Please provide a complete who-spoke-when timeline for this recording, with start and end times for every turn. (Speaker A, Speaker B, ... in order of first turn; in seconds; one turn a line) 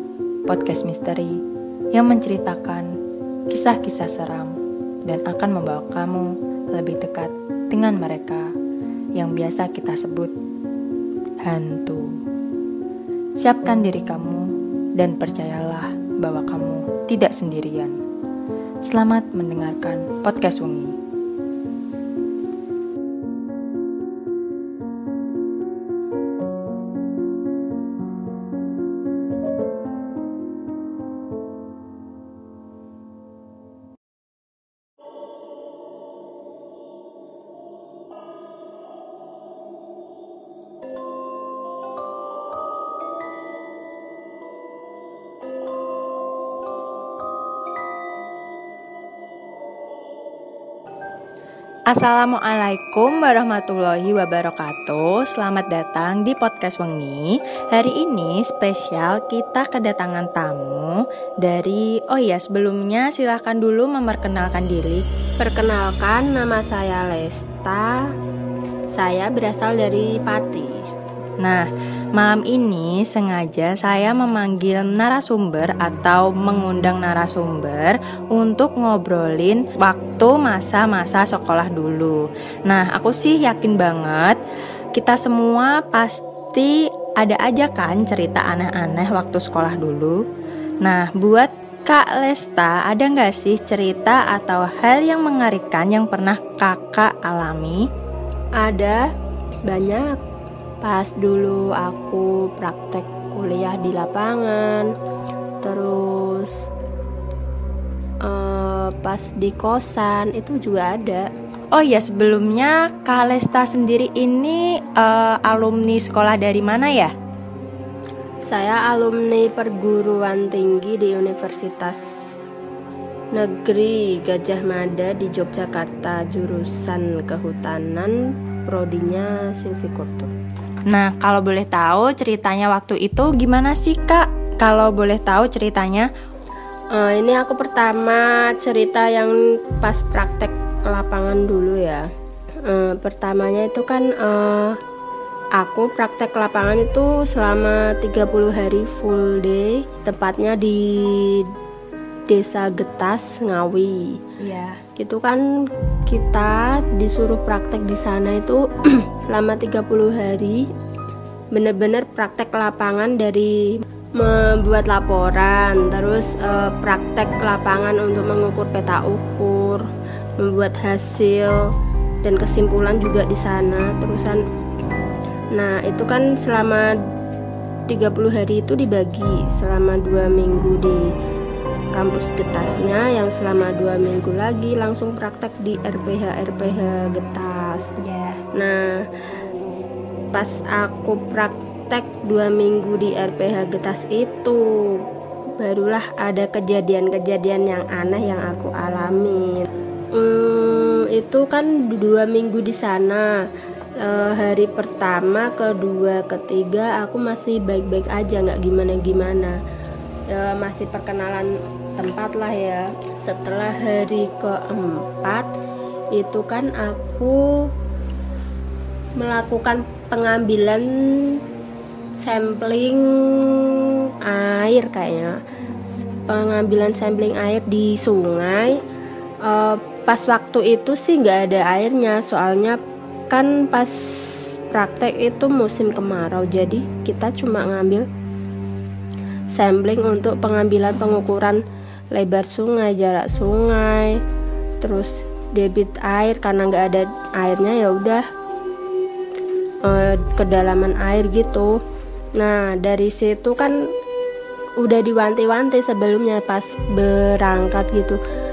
Speaker A: 0.5-1.4
Speaker A: 1.9-2.9
Speaker A: 3.5-4.5
Speaker A: 5.1-8.5
Speaker A: 9.2-10.3
Speaker A: 11.4-12.1
Speaker A: 13.4-18.0
Speaker A: 18.9-20.9
Speaker A: 51.9-65.0
Speaker B: 65.4-68.1
Speaker B: 68.9-70.8
Speaker A: 71.4-71.7
Speaker A: 72.2-84.4
Speaker A: 85.0-90.2
Speaker A: 90.8-97.8
Speaker B: 98.6-99.0
Speaker B: 99.7-100.2
Speaker B: 100.8-104.9
Speaker B: 105.6-106.6
Speaker B: 108.2-111.3
Speaker A: 111.7-117.1
Speaker B: 118.5-122.0
Speaker B: 123.3-128.2
Speaker B: 128.7-130.3
Speaker A: 130.9-136.1
Speaker B: 136.9-142.1
Speaker B: 142.7-144.8
Speaker B: 145.6-151.5
Speaker B: 152.3-154.2
Speaker A: 154.4-154.8
Speaker B: 155.0-155.4
Speaker B: 156.1-160.7
Speaker B: 161.5-169.9
Speaker B: 170.4-171.7
Speaker B: 172.2-174.4
Speaker B: 175.6-176.9
Speaker B: 177.9-181.1
Speaker B: 181.9-187.9
Speaker A: 188.0-188.4
Speaker B: 188.6-189.1
Speaker B: 190.3-194.6
Speaker B: 195.6-199.6
Speaker B: 200.2-203.3
Speaker B: 204.0-209.6
Speaker B: 210.3-215.5
Speaker B: 216.2-217.4
Speaker B: 219.2-221.4
Speaker B: 222.2-225.4
Speaker B: 226.3-228.8
Speaker B: 229.4-232.8
Speaker B: 233.3-238.1
Speaker B: 239.5-241.6
Speaker B: 242.1-244.2
Speaker B: 244.8-248.2
Speaker B: 249.9-251.7
Speaker B: 252.4-253.8
Speaker B: 254.8-258.2